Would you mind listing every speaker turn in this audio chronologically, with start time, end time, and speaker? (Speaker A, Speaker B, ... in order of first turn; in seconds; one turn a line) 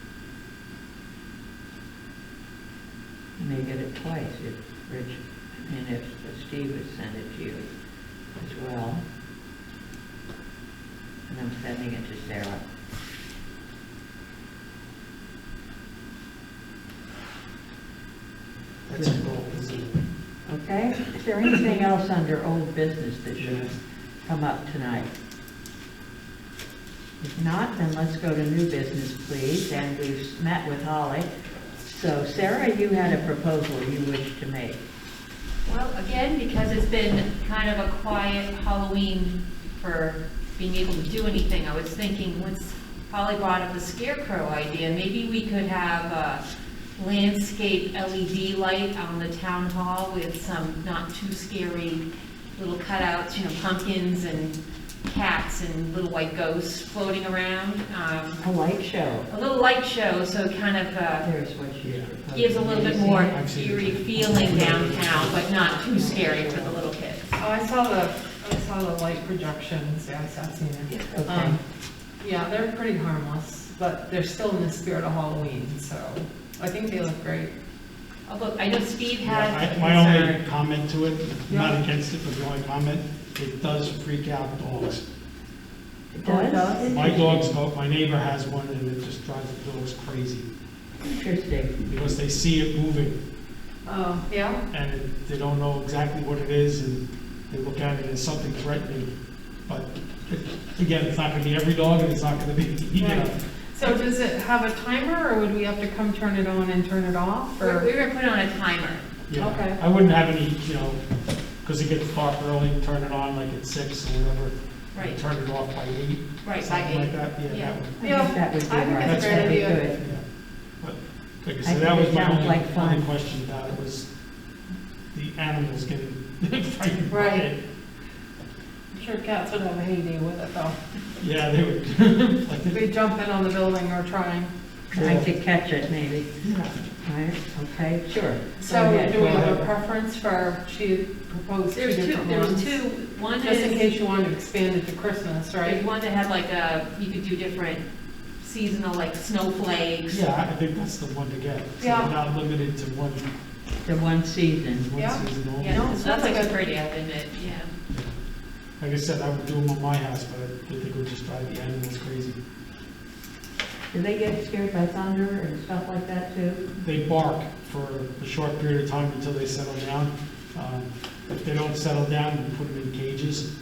Speaker A: 3.4-7.7
Speaker A: 8.3-9.0
Speaker A: 11.3-12.6
Speaker B: 18.9-20.0
Speaker A: 18.9-19.2
Speaker A: 20.5-23.7
Speaker B: 23.4-23.7
Speaker A: 24.2-25.1
Speaker A: 27.2-31.3
Speaker A: 31.8-34.8
Speaker C: 35.6-46.4
Speaker C: 47.0-52.0
Speaker C: 52.5-58.4
Speaker A: 58.4-59.3
Speaker C: 59.3-61.3
Speaker A: 61.2-63.3
Speaker B: 61.8-62.1
Speaker C: 62.3-67.4
Speaker B: 63.0-65.5
Speaker A: 65.5-66.8
Speaker D: 67.4-71.6
Speaker A: 70.9-71.6
Speaker D: 72.2-77.5
Speaker C: 78.3-80.4
Speaker B: 79.2-85.0
Speaker D: 81.5-81.8
Speaker A: 86.1-87.5
Speaker D: 86.2-87.0
Speaker B: 86.8-90.5
Speaker A: 91.0-91.8
Speaker B: 91.8-93.2
Speaker D: 93.8-94.6
Speaker B: 94.7-99.1
Speaker B: 99.7-103.3
Speaker D: 103.0-107.9
Speaker C: 107.6-109.0
Speaker B: 109.3-111.0
Speaker D: 109.3-109.8
Speaker B: 111.6-118.0
Speaker C: 114.9-115.2
Speaker C: 116.4-117.8
Speaker A: 118.0-120.0
Speaker D: 118.0-119.8
Speaker B: 119.0-120.2
Speaker B: 120.8-124.1
Speaker A: 121.6-123.0
Speaker B: 125.1-127.6
Speaker D: 127.1-127.5
Speaker D: 128.9-130.8
Speaker B: 131.2-132.8
Speaker D: 132.7-134.5
Speaker A: 134.9-139.6
Speaker B: 134.9-135.3
Speaker D: 138.6-142.8
Speaker B: 139.1-139.6
Speaker C: 141.7-143.8
Speaker D: 143.4-145.8
Speaker C: 145.6-147.9
Speaker C: 148.4-150.3
Speaker B: 150.1-153.2
Speaker D: 151.8-152.1
Speaker A: 153.8-154.9
Speaker B: 154.8-155.8
Speaker D: 154.9-156.6
Speaker C: 155.6-157.7
Speaker B: 158.8-162.3
Speaker A: 163.9-166.6
Speaker B: 166.8-173.5